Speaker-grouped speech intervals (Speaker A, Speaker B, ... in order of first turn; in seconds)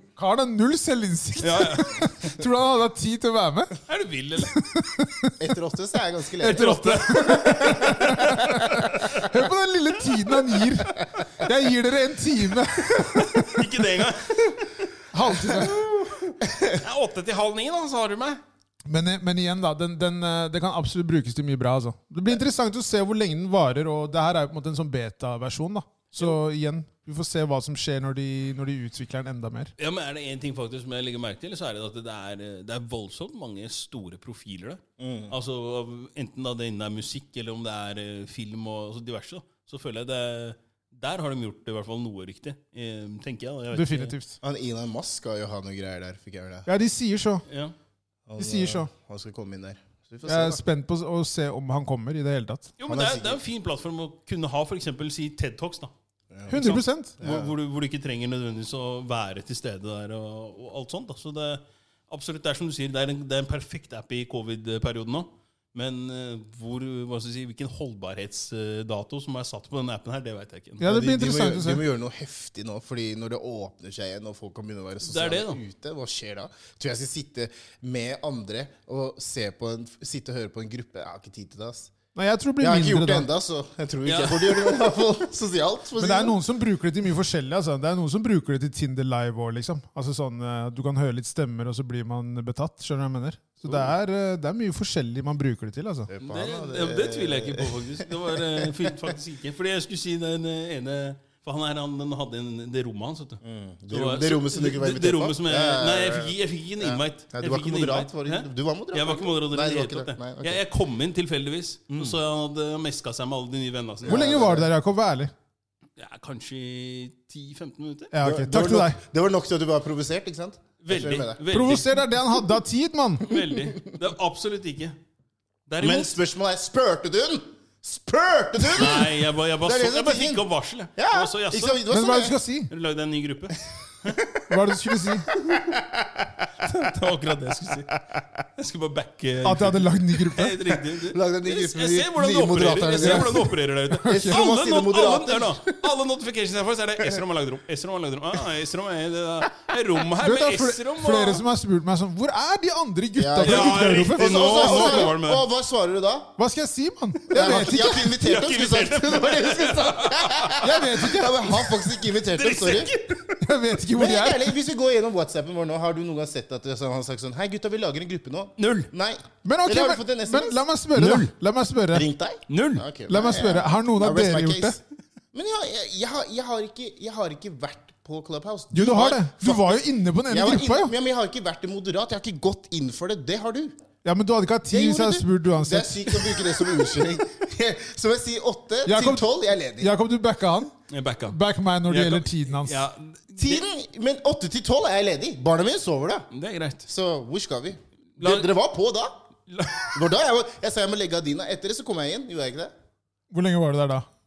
Speaker A: 0.2-3.8, 4.4-5.3, 6.4-13.7, 15.1-15.9, 18.9-29.7, 43.7-44.4, 46.6-47.4, 48.4-48.9, 50.2-52.7, 56.5-57.2, 70.8-71.8, 82.1-83.3, 86.0-96.1, 114.1-115.3, 118.1-119.0, 121.5-123.3, 131.9-132.7, 134.5-135.3, 139.4-140.6, 143.0-143.3, 143.9-144.4, 150.2-155.1, 156.4-158.1, 160.6-161.6, 163.4-164.5, 169.4-172.1, 173.1-174.8, 178.7-180.9, 184.0-186.2, 188.8-190.7, 191.3-192.8, 203.3-204.1
Speaker B: 1.4-2.0, 3.9-4.5, 6.4-8.2, 13.2-14.4, 16.7-18.4, 29.8-44.1, 47.5-47.7, 52.8-55.9, 56.5-70.8, 75.0-75.6, 84.0-84.8, 96.2-114.3, 116.0-118.1, 120.8-122.0, 123.2-125.0, 125.7-126.2, 128.7-131.8, 132.7-134.2, 136.6-138.0, 138.6-151.4, 153.4-155.4, 158.0-160.6, 162.0-163.3, 168.6-168.9, 170.9-171.3, 172.5-172.8, 190.9-193.6, 196.3-196.8, 198.2-198.5, 199.5-200.1
Speaker C: 5.4-9.2, 15.5-15.8, 16.4-16.8, 35.0-35.3, 44.4-46.7, 48.3-50.6, 52.9-53.4, 56.3-56.6, 57.2-57.5, 70.8-81.9, 82.6-86.4, 96.1-99.1, 103.4-110.6, 111.9-112.2, 114.0-114.7, 118.2-121.4, 123.3-123.9, 125.8-132.3, 134.0-136.4, 140.9-145.9, 153.2-156.3, 157.3-162.9, 163.9-170.6, 171.9-174.8, 175.3-183.7, 184.7-189.9, 193.4-196.3, 196.8-199.1, 199.9-202.7